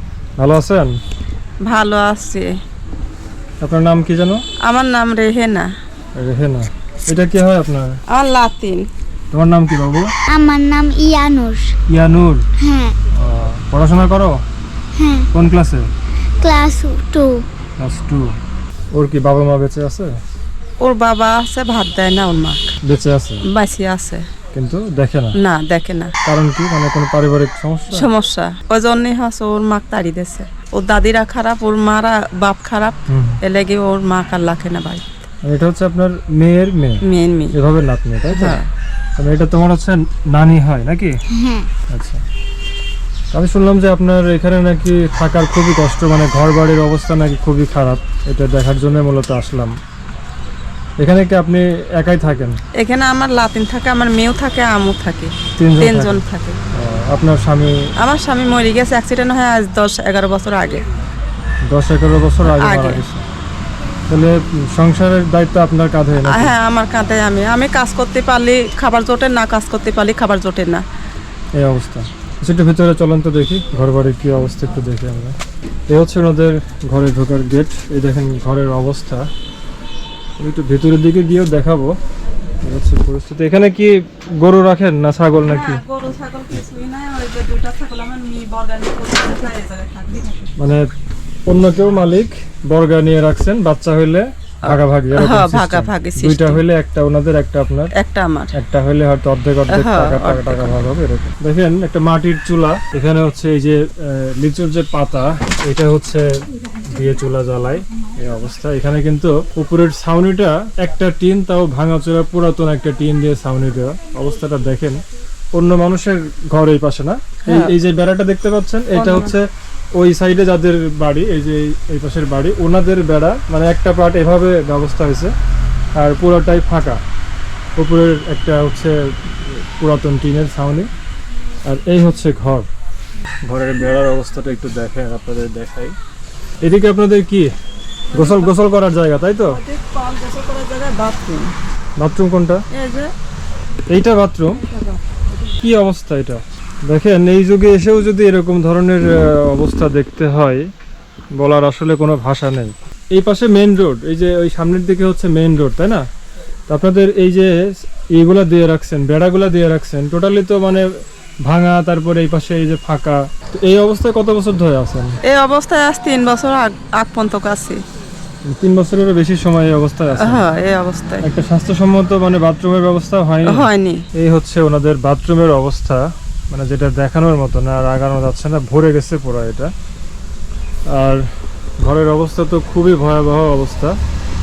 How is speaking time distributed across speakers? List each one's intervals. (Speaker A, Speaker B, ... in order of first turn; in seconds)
Speaker A: 0.4-0.9, 3.6-4.4, 6.2-8.0, 9.3-10.1, 11.9-12.4, 13.1-14.4, 15.3-15.9, 17.8-18.3, 18.9-20.1, 22.8-23.4, 24.5-25.4, 26.2-28.1, 33.1-33.4, 35.4-38.6, 39.2-41.2, 41.9-42.2, 43.3-49.8, 51.0-52.6, 55.5-56.2, 56.7-57.9, 61.7-63.2, 64.1-66.5, 71.5-75.3, 75.9-79.3, 80.4-82.0, 82.6-85.8, 90.6-90.9, 91.5-97.9, 98.5-106.2, 106.8-115.0, 115.5-125.3, 126.0-127.0, 127.8-130.9, 131.7-132.7, 133.4-135.9, 136.6-137.5, 138.1-139.6, 142.0-142.6, 143.9-144.6, 145.5-150.6, 151.3-156.1, 156.7-160.8, 161.4-165.1, 168.5-170.5, 171.2-179.7, 180.9-181.3, 181.8-184.0
Speaker B: 1.7-2.5, 4.7-5.7, 8.1-8.8, 20.8-22.7, 23.5-24.2, 25.4-26.1, 27.9-35.1, 37.0-37.5, 38.3-38.7, 52.8-56.6, 58.0-60.8, 62.4-63.0, 66.3-70.8, 85.4-90.5, 94.6-96.6, 98.0-98.5, 99.7-100.8, 117.5-117.7, 118.9-119.4, 138.1-138.5, 139.5-141.5, 142.7-143.1, 144.6-145.0, 165.3-167.8, 170.2-171.2, 173.4-174.1
Speaker C: 10.3-11.8, 12.6-12.9, 14.9-15.3, 16.4-17.4, 41.3-41.7